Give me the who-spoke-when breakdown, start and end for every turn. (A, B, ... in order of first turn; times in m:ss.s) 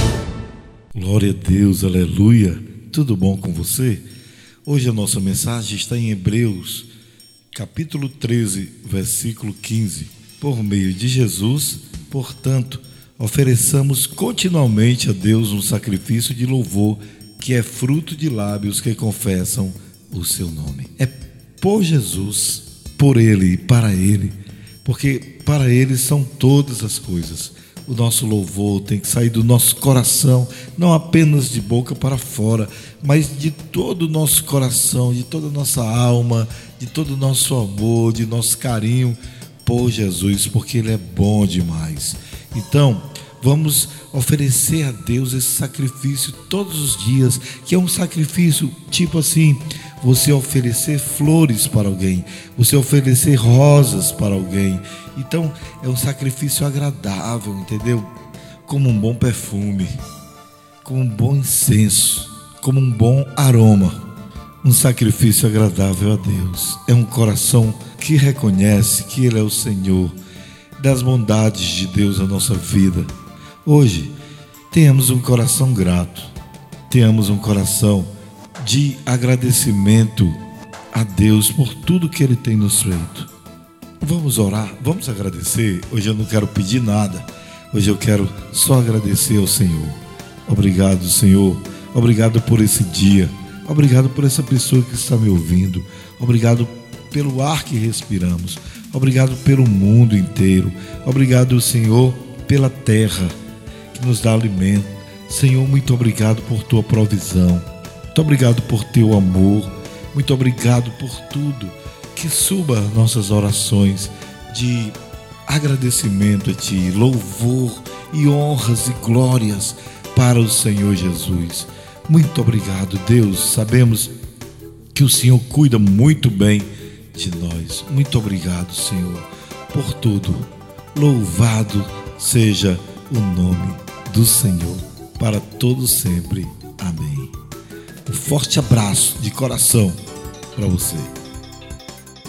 0:00.9-0:04.1 A
0:04.7-0:06.9 A
0:07.5-0:58.1 A
0:58.6-1:00.0 A
1:00.8-1:04.0 A
1:04.6-1:10.2 A
1:10.8-1:13.1 A
1:13.6-1:14.1 A
1:14.7-1:16.3 A
1:16.9-1:20.4 A
1:20.9-1:23.3 A
1:24.0-1:43.3 A
1:43.9-1:55.0 A
1:55.5-2:04.1 A
2:04.9-2:17.3 A
2:18.1-2:20.0 A
2:20.5-2:21.1 A